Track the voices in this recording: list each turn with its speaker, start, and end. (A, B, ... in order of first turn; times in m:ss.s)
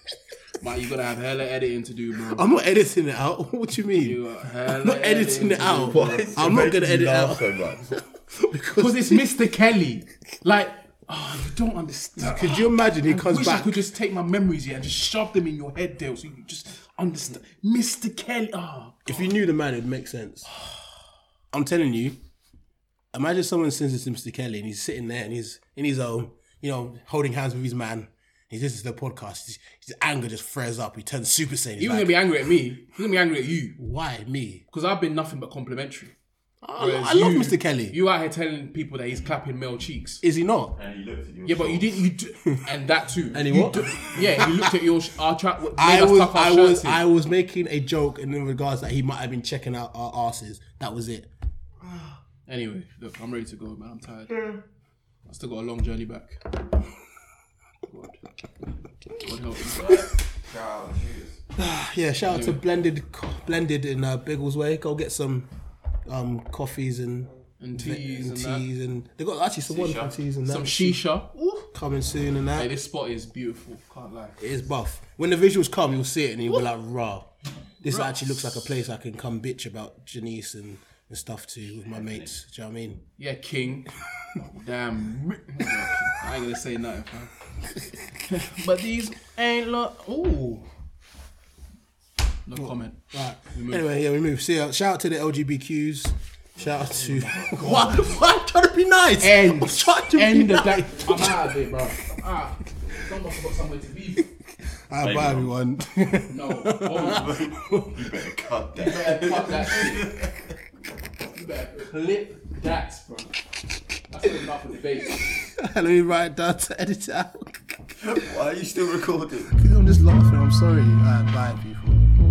0:00.6-0:02.5 A
0:02.3-0:09.3 B
0:04.0-0:06.5 A
0:05.9-0:07.9 C
0:08.8-0:19.4 A
0:12.2-0:13.9 B
0:19.1-0:20.5 B
0:21.5-0:22.2 B
0:23.1-0:32.2 B
0:31.8-0:33.8 A
0:33.8-0:34.6 B
0:34.7-0:36.2 A
0:36.6-0:38.0 B
0:36.8-0:40.2 A
0:40.2-0:40.8 B
0:40.8-0:42.1 C
0:41.4-0:47.0 A
0:43.3-0:44.8 B
0:45.8-0:51.3 B
0:52.5-0:54.5 A
0:55.3-0:56.4 A
0:57.9-0:58.2 A
0:59.2-1:00.0 A
0:59.7-1:01.4 C
1:01.6-1:05.5 B
1:02.3-1:02.6 A
1:06.1-1:11.1 B
1:07.6-1:08.7 A
1:09.7-1:10.2 C
1:10.4-1:11.7 A
1:11.7-1:12.7 B
1:12.6-1:14.4 A
1:14.4-1:17.3 B
1:17.8-1:23.0 B
1:17.9-1:18.7 A
1:21.9-1:22.3 C
1:23.2-1:27.3 A
1:28.2-1:30.7 A
1:32.5-1:33.8 A
1:32.6-1:41.5 B
1:36.6-1:38.2 C
1:37.6-1:38.1 A
1:39.2-1:44.3 A
1:44.9-1:48.4 B
1:45.0-1:45.6 C
1:46.3-1:47.3 A
1:47.0-1:50.4 C
1:48.8-1:50.1 A
1:51.3-1:53.4 A
1:54.1-1:55.3 A
1:55.4-1:58.0 B
1:58.0-1:59.6 C
1:59.5-2:02.1 B